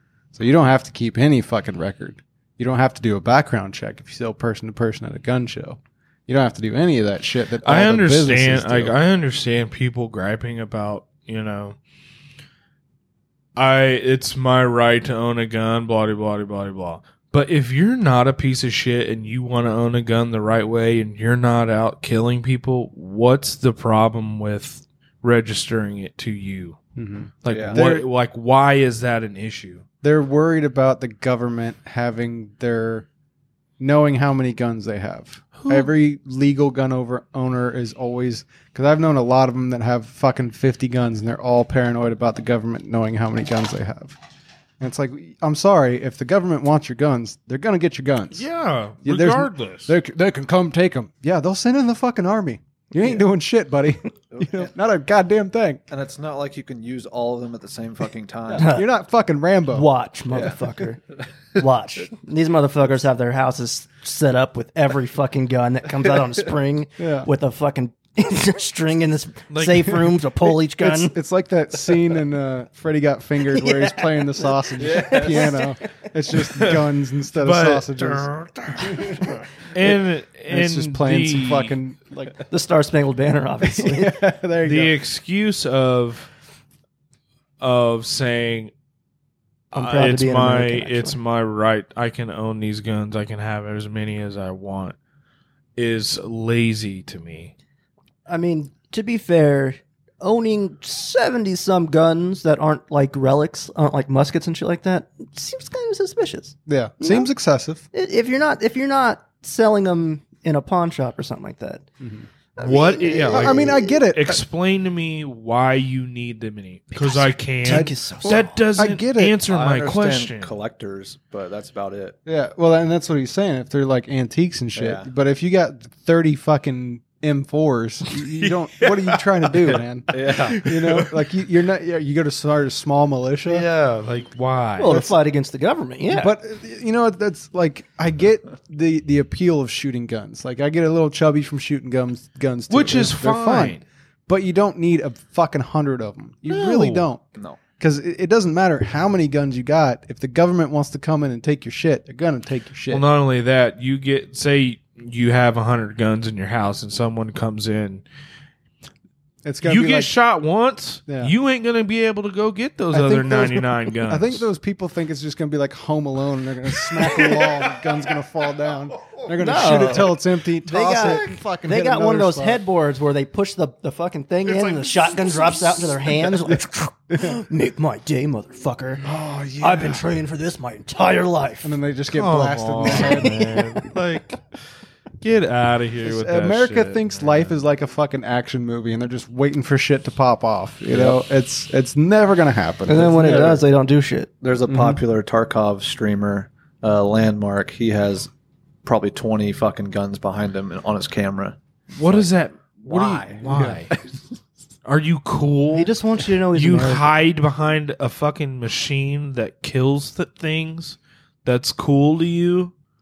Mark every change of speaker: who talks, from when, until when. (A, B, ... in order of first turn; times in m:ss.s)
0:00.3-0:09.0 A
0:07.6-0:11.8 B
0:13.6-0:26.8 B
0:27.0-0:28.1 A
0:27.4-0:29.8 B
0:27.5-0:27.8 C
0:30.0-0:33.1 A
0:33.8-0:44.2 A
0:35.6-0:35.9 B
0:44.8-0:48.5 A
0:48.3-0:50.0 B
0:49.0-0:55.8 A
0:53.0-0:53.2 D
0:54.3-0:54.7 C
0:55.9-0:58.7 C
0:58.5-0:58.9 D
0:58.6-0:59.9 A
0:59.7-1:01.0 D
1:01.5-1:11.2 D
1:07.0-1:07.3 A
1:09.5-1:10.1 B
1:10.7-1:19.3 A
1:13.5-1:15.7 D
1:14.8-1:15.6 C
1:16.5-1:21.8 B
1:20.5-1:22.4 A
1:22.5-1:24.2 D
1:23.6-1:25.0 A
1:24.6-1:26.3 B
1:27.6-1:28.7 B
1:29.7-1:35.0 B
1:29.7-1:31.2 D
1:35.8-1:37.5 B
1:38.3-1:47.3 D
1:46.7-1:47.8 A
1:47.9-1:51.8 D
1:52.0-1:52.3 A
1:52.6-1:53.9 D
1:52.6-2:00.5 B
1:53.2-1:54.4 A
1:56.9-1:58.6 D
1:57.6-1:59.4 A
1:59.4-2:02.2 C
2:02.3-2:13.7 A
2:04.8-2:05.1 C
2:08.1-2:11.2 B
2:10.1-2:10.6 C
2:13.5-2:14.9 B
2:14.8-2:16.3 D
2:14.8-2:15.2 A
2:16.1-2:27.2 A
2:22.7-2:23.8 B
2:26.5-2:27.1 B
2:27.8-2:33.0 A
2:32.9-2:38.0 B
2:39.4-2:40.1 A
2:39.6-2:44.4 B
2:41.1-2:41.3 A
2:42.9-2:52.6 A
2:49.4-3:01.8 D
2:54.5-2:56.1 B
2:57.1-2:57.4 A
2:59.0-3:00.0 A
3:01.6-3:03.4 A
3:02.1-3:04.6 B
3:03.0-3:03.9 D
3:05.2-3:07.6 B
3:06.0-3:13.5 A
3:10.9-3:11.2 C
3:12.9-3:14.3 D
3:13.0-3:13.6 C
3:14.4-3:18.3 C
3:14.7-3:15.0 A
3:18.8-3:22.3 C
3:22.0-3:24.0 B
3:22.9-3:23.7 C
3:23.4-3:23.8 A
3:24.8-3:32.7 B
3:25.7-3:27.1 D